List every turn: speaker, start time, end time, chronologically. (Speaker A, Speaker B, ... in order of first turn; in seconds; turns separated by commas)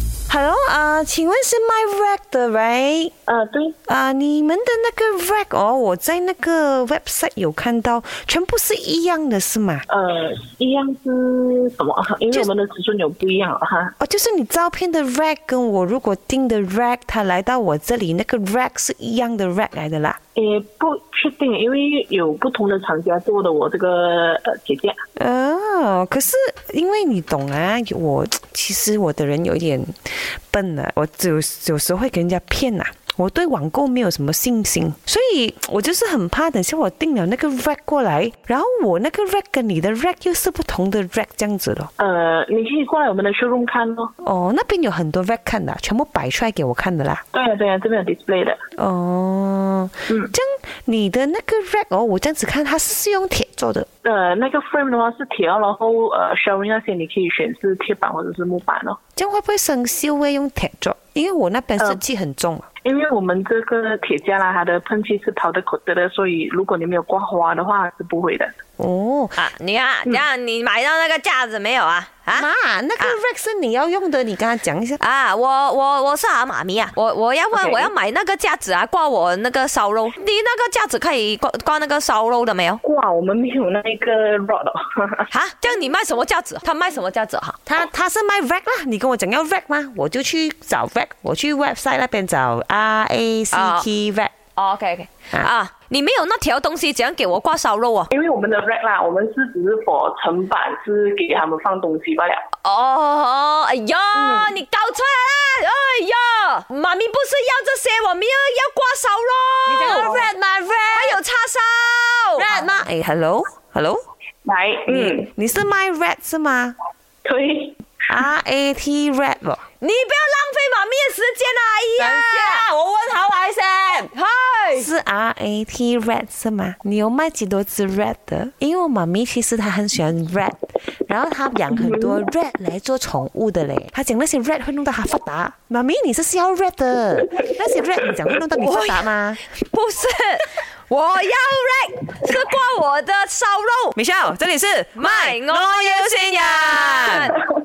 Speaker A: 0.3-3.1, Speaker B: 3.3-3.8, Speaker A: 3.9-9.9, Speaker B: 9.9-13.9, Speaker A: 14.0-20.2, Speaker B: 20.4-25.0, Speaker A: 25.2-41.9, Speaker B: 42.0-44.1, Speaker A: 44.2-47.2, Speaker B: 47.3-48.6, Speaker A: 48.8-53.9, Speaker B: 54.0-59.0, Speaker A: 59.2-62.7, Speaker B: 62.8-68.5, Speaker A: 68.8-69.4, Speaker C: 69.4-72.5, Speaker A: 72.3-75.0, Speaker C: 75.0-82.8, Speaker B: 82.8-85.3, Speaker C: 85.3-87.6, Speaker A: 87.7-94.3, Speaker C: 93.5-93.9, Speaker C: 94.6-98.1, Speaker B: 98.1-102.5, Speaker C: 102.6-110.3, Speaker B: 104.1-104.5, Speaker A: 109.7-111.2, Speaker C: 110.9-112.5, Speaker A: 112.4-114.0, Speaker B: 114.5-115.3, Speaker A: 114.9-116.8, Speaker B: 117.2-117.8, Speaker A: 118.1-119.6, Speaker C: 119.8-122.7, Speaker A: 122.0-124.1, Speaker C: 124.1-124.9, Speaker A: 124.7-139.4, Speaker B: 131.7-132.2, Speaker C: 138.6-144.0, Speaker A: 143.9-147.3, Speaker C: 145.0-147.4